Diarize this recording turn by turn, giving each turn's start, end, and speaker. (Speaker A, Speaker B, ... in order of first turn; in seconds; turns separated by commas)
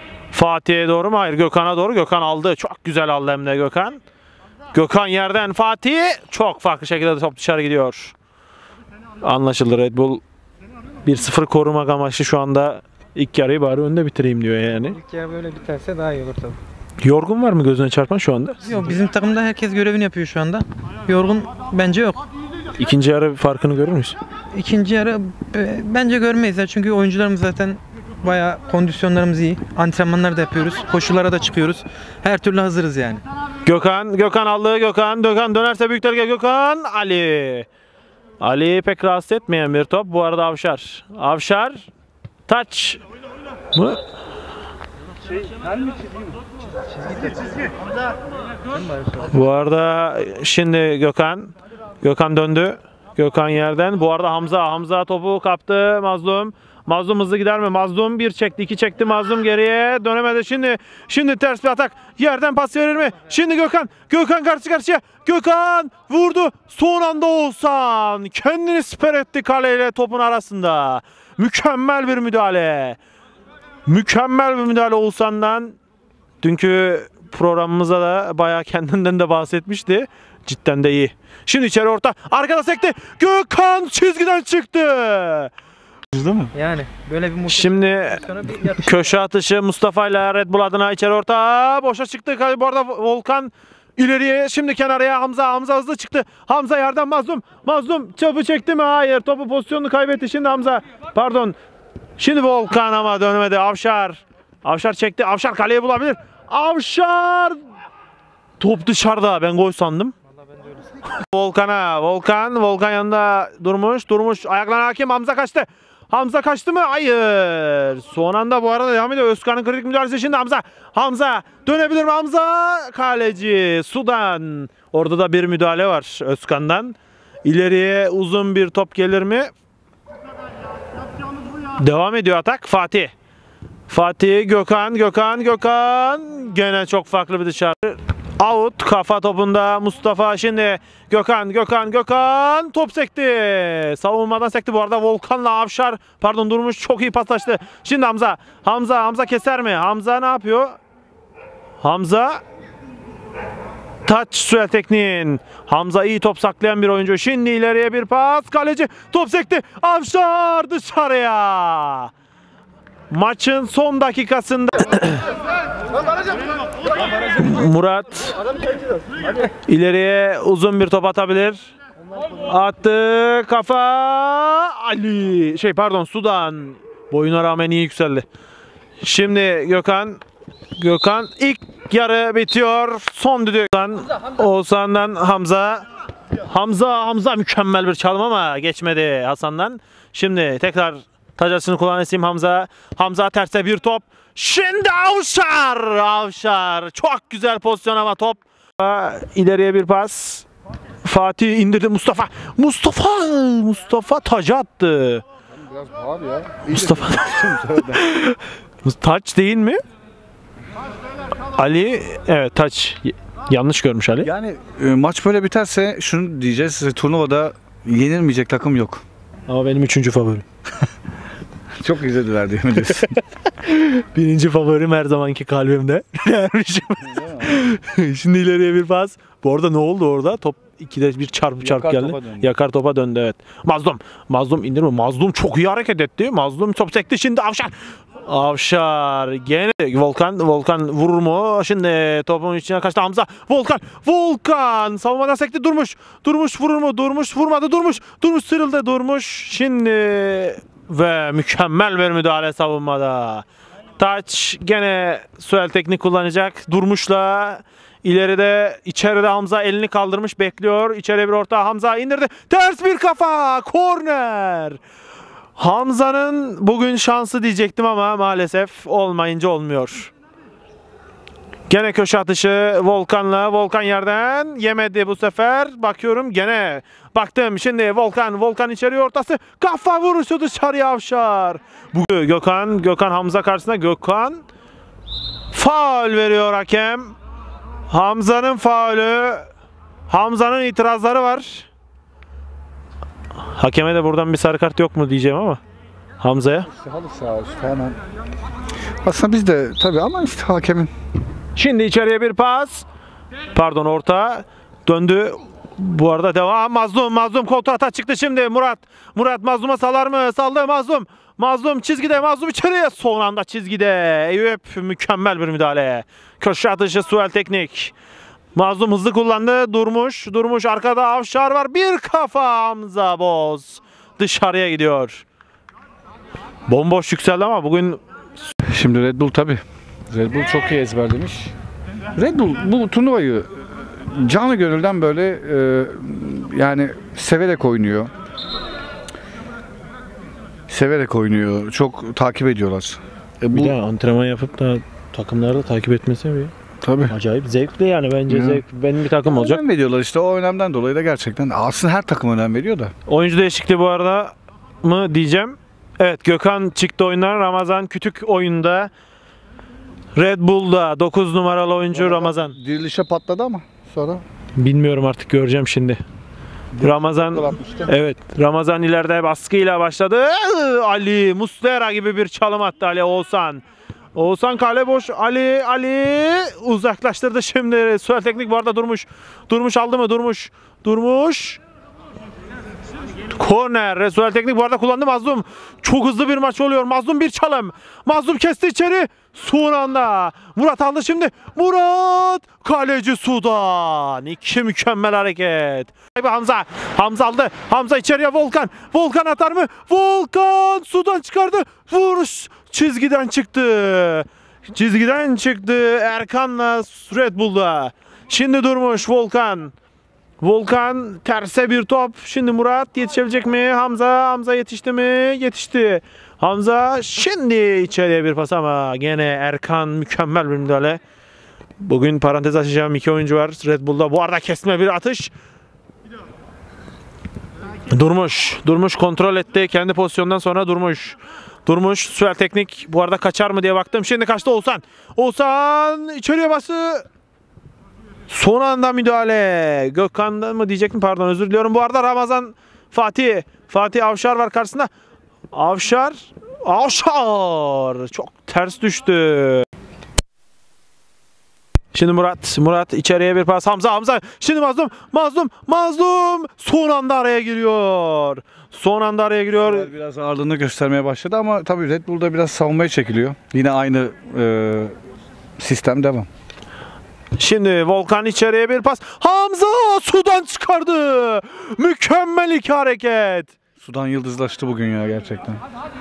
Speaker A: 0.3-4.0, Speaker A: 4.7-8.1, Speaker A: 9.2-10.2, Speaker A: 11.0-14.9, Speaker B: 14.9-16.6, Speaker A: 17.0-18.6, Speaker B: 18.6-22.2, Speaker A: 22.8-24.1, Speaker B: 24.5-33.2, Speaker A: 33.6-37.7, Speaker A: 38.4-41.9, Speaker A: 42.5-43.0, Speaker A: 43.7-44.0, Speaker A: 49.3-73.0, Speaker A: 73.8-75.8, Speaker A: 76.4-85.5, Speaker C: 86.1-86.5, Speaker B: 86.5-89.2, Speaker A: 87.5-88.2, Speaker A: 88.8-101.5, Speaker A: 102.2-107.6, Speaker A: 108.6-110.1, Speaker A: 111.2-129.5, Speaker A: 131.8-133.1, Speaker A: 133.9-150.8, Speaker A: 151.8-152.4, Speaker A: 154.0-162.1, Speaker A: 163.1-165.2, Speaker A: 167.3-168.4, Speaker A: 169.7-171.7, Speaker A: 172.4-178.2, Speaker A: 179.0-180.2, Speaker A: 180.8-185.8, Speaker A: 186.5-200.4, Speaker A: 201.0-205.2, Speaker C: 205.5-208.0, Speaker A: 206.7-207.3, Speaker A: 208.0-209.8, Speaker A: 211.5-214.3, Speaker C: 214.2-219.0, Speaker A: 219.5-220.4, Speaker C: 221.8-223.1, Speaker A: 223.6-237.7, Speaker C: 227.1-227.5, Speaker C: 231.6-232.5, Speaker A: 238.2-253.4, Speaker A: 254.0-264.8, Speaker A: 265.6-270.1, Speaker A: 271.7-284.4, Speaker A: 285.5-287.1, Speaker A: 287.9-289.5, Speaker A: 290.1-291.7, Speaker A: 293.4-295.6, Speaker A: 296.2-296.7, Speaker C: 296.8-298.0, Speaker C: 299.0-300.9, Speaker A: 301.6-302.8, Speaker A: 303.5-317.9, Speaker A: 318.5-325.2, Speaker A: 326.7-328.0, Speaker C: 328.6-331.5, Speaker C: 332.1-338.1, Speaker C: 340.7-343.7, Speaker A: 343.5-346.5, Speaker C: 346.8-347.1, Speaker A: 347.1-349.6, Speaker C: 348.3-348.6, Speaker C: 349.2-352.9, Speaker A: 353.1-358.9, Speaker A: 360.1-362.6, Speaker C: 361.9-364.2, Speaker A: 364.6-366.0, Speaker C: 366.8-367.9, Speaker A: 366.8-373.6, Speaker A: 374.1-381.6, Speaker A: 383.4-409.7, Speaker A: 410.4-421.0, Speaker A: 421.8-425.3, Speaker A: 427.9-437.0, Speaker A: 438.3-444.9, Speaker A: 445.5-449.7, Speaker A: 451.9-459.9, Speaker C: 459.6-464.9, Speaker C: 465.6-466.3, Speaker A: 467.4-473.5, Speaker C: 473.8-475.6